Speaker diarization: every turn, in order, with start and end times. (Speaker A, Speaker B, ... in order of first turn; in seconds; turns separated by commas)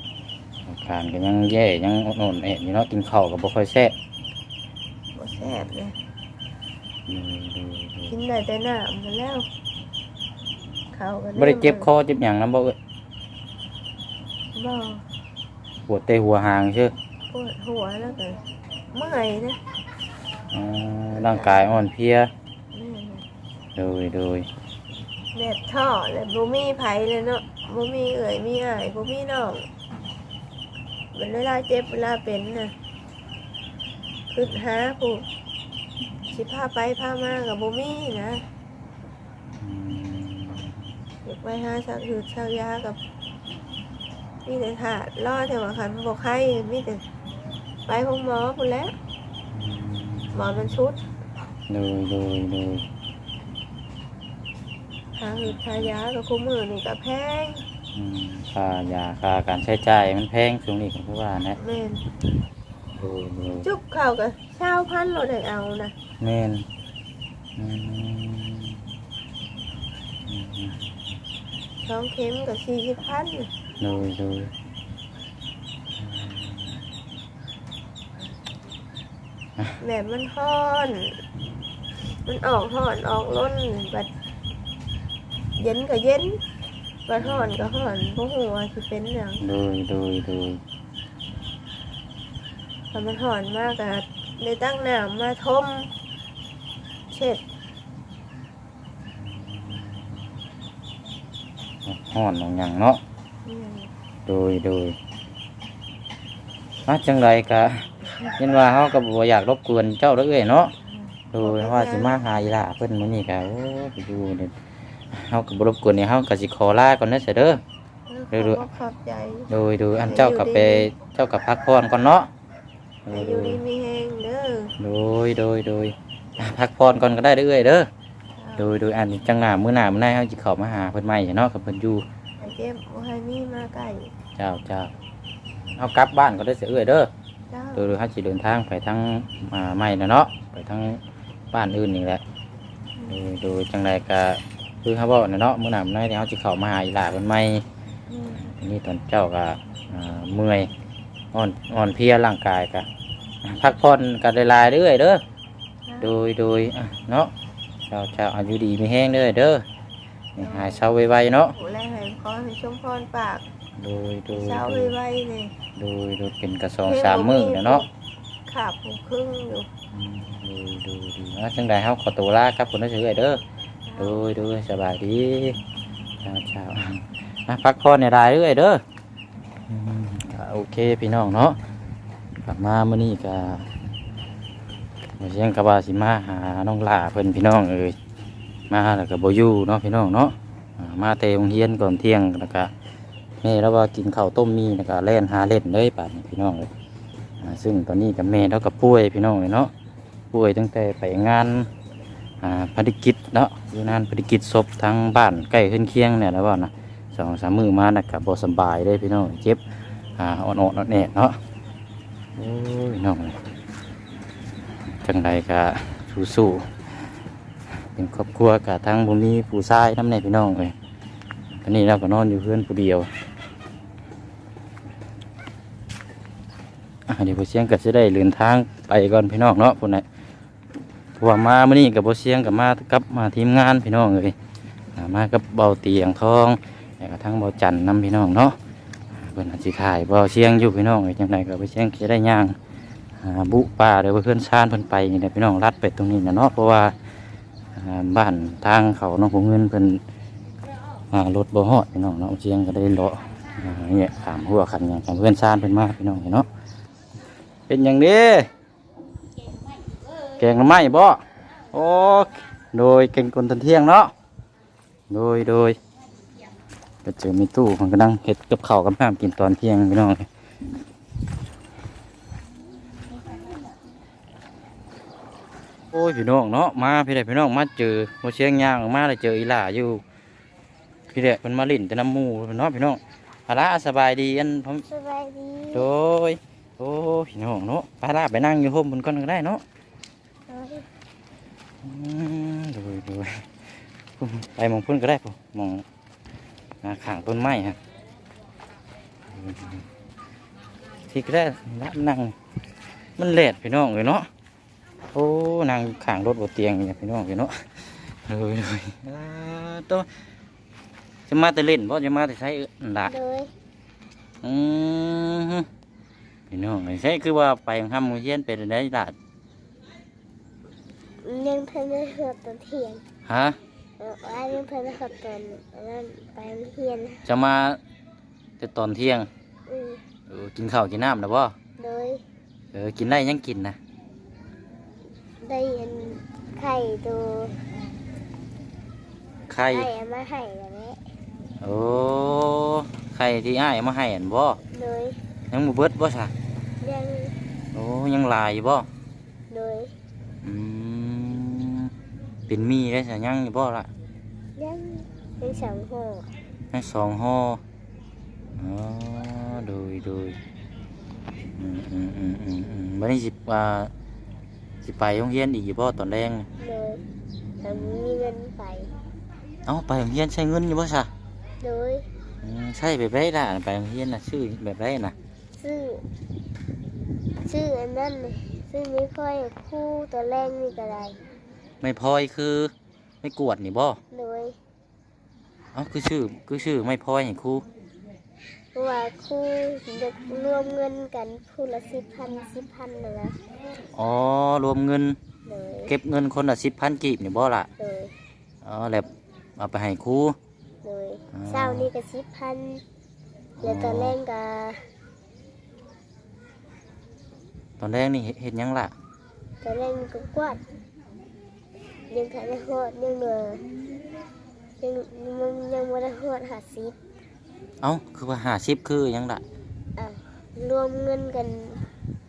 Speaker A: 0.7-4.0, Speaker B: 5.2-6.0, Speaker A: 7.1-8.1, Speaker B: 8.1-9.5, Speaker B: 10.9-11.9, Speaker A: 11.4-12.8, Speaker B: 14.6-15.0, Speaker A: 15.9-16.9, Speaker B: 17.3-18.4, Speaker B: 18.9-19.6, Speaker A: 20.5-22.3, Speaker B: 21.1-21.7, Speaker B: 22.7-23.2, Speaker A: 23.8-24.5, Speaker B: 25.4-29.7, Speaker B: 31.1-32.7, Speaker B: 34.3-35.2, Speaker B: 36.3-38.5, Speaker A: 39.6-40.8, Speaker B: 41.2-43.0, Speaker B: 44.5-47.0, Speaker B: 47.9-48.9, Speaker A: 49.5-50.6, Speaker B: 50.3-51.0, Speaker A: 51.7-52.9, Speaker B: 55.2-57.6, Speaker A: 55.4-55.9, Speaker A: 57.9-61.6, Speaker B: 61.6-62.0, Speaker A: 62.9-63.7, Speaker B: 63.6-65.9, Speaker A: 66.2-66.7, Speaker A: 67.6-68.8, Speaker A: 70.3-70.8, Speaker B: 71.8-73.5, Speaker A: 73.8-74.5, Speaker A: 76.0-76.8, Speaker B: 79.8-81.2, Speaker B: 82.2-84.1, Speaker B: 85.6-86.4, Speaker B: 87.1-89.4, Speaker A: 87.2-87.6, Speaker A: 89.4-90.6, Speaker B: 92.9-95.9, Speaker B: 97.1-97.4, Speaker A: 99.2-100.0, Speaker A: 101.8-103.0, Speaker B: 103.5-103.9, Speaker A: 104.3-105.0, Speaker A: 106.9-110.7, Speaker B: 110.9-112.2, Speaker A: 111.3-114.5, Speaker A: 115.1-117.6, Speaker B: 118.1-119.5, Speaker A: 118.3-118.7, Speaker A: 119.5-122.3, Speaker B: 120.0-120.9, Speaker A: 123.1-123.6, Speaker B: 123.1-124.7, Speaker A: 124.8-127.9, Speaker B: 128.4-128.7, Speaker A: 128.6-132.1, Speaker B: 132.4-134.1, Speaker A: 134.4-134.9, Speaker A: 135.8-137.1, Speaker B: 137.5-137.9, Speaker A: 137.8-141.0, Speaker A: 141.5-142.2, Speaker A: 143.1-147.7, Speaker B: 148.1-148.4, Speaker A: 148.3-150.7, Speaker A: 151.3-152.9, Speaker A: 153.4-155.2, Speaker A: 156.0-157.3, Speaker A: 157.9-159.7, Speaker A: 160.4-161.5, Speaker B: 160.4-160.9, Speaker B: 161.6-163.4, Speaker A: 163.8-165.0, Speaker B: 164.3-165.6, Speaker A: 165.8-167.8, Speaker B: 166.9-167.9, Speaker B: 168.5-169.7, Speaker A: 169.9-173.4, Speaker B: 173.9-174.2, Speaker A: 174.0-175.6, Speaker A: 176.2-178.8, Speaker A: 179.7-181.6, Speaker A: 182.4-183.7, Speaker A: 185.2-188.0, Speaker A: 188.7-192.7, Speaker A: 193.4-196.7, Speaker A: 197.4-199.7, Speaker A: 200.3-201.7, Speaker A: 202.4-209.6, Speaker A: 210.2-211.4, Speaker A: 212.4-213.4, Speaker A: 214.9-216.8, Speaker A: 217.9-220.8, Speaker A: 221.6-223.1, Speaker A: 227.1-230.1, Speaker A: 231.2-234.4, Speaker A: 235.0-238.6, Speaker A: 239.2-242.6, Speaker A: 243.2-246.9, Speaker A: 247.8-250.0, Speaker A: 251.1-256.5, Speaker A: 257.7-258.5, Speaker A: 260.4-261.2, Speaker A: 261.7-264.1, Speaker A: 265.1-265.8, Speaker A: 267.0-270.3, Speaker A: 275.9-280.0, Speaker A: 281.1-284.9, Speaker C: 284.9-285.9, Speaker A: 285.7-289.6, Speaker C: 290.5-290.9, Speaker A: 291.8-293.5, Speaker A: 294.2-295.9, Speaker A: 296.8-297.8, Speaker A: 299.3-299.8, Speaker A: 301.1-302.4, Speaker A: 303.2-304.3, Speaker A: 305.1-310.1, Speaker A: 311.3-313.1, Speaker C: 313.0-313.5, Speaker A: 314.4-315.7, Speaker A: 316.5-319.2, Speaker C: 321.2-323.0, Speaker A: 323.3-323.6, Speaker C: 324.0-327.2, Speaker A: 327.2-327.8, Speaker A: 328.6-329.3, Speaker C: 329.7-330.0, Speaker A: 330.3-331.6, Speaker C: 331.8-332.2, Speaker A: 332.7-333.8, Speaker C: 335.4-337.6, Speaker A: 339.5-339.9, Speaker C: 339.7-341.0, Speaker A: 341.6-344.6, Speaker C: 344.7-345.2, Speaker A: 345.5-346.3, Speaker C: 346.8-347.4, Speaker A: 347.7-348.9, Speaker C: 349.5-349.9, Speaker A: 350.4-351.9, Speaker A: 352.5-353.9, Speaker C: 354.6-356.3, Speaker A: 355.4-355.8, Speaker A: 356.7-357.6, Speaker A: 358.6-360.4, Speaker A: 361.5-363.9, Speaker A: 364.8-366.5, Speaker C: 366.6-367.0, Speaker C: 367.6-368.9, Speaker A: 367.6-368.0, Speaker A: 369.7-371.1, Speaker C: 371.6-372.1, Speaker A: 372.4-375.1, Speaker C: 375.6-376.1, Speaker C: 377.4-381.2, Speaker A: 381.8-384.0, Speaker C: 384.1-384.6, Speaker A: 385.7-387.7, Speaker C: 388.8-393.4, Speaker A: 393.9-395.2, Speaker C: 395.4-395.9, Speaker A: 395.9-397.7, Speaker C: 397.8-398.1, Speaker A: 398.6-400.4, Speaker C: 400.8-402.8, Speaker A: 401.3-401.9, Speaker A: 403.6-404.2, Speaker C: 403.6-404.8, Speaker A: 407.8-408.9, Speaker C: 409.6-410.6, Speaker C: 412.1-413.6, Speaker C: 414.8-417.0, Speaker A: 417.8-419.4, Speaker C: 420.0-421.9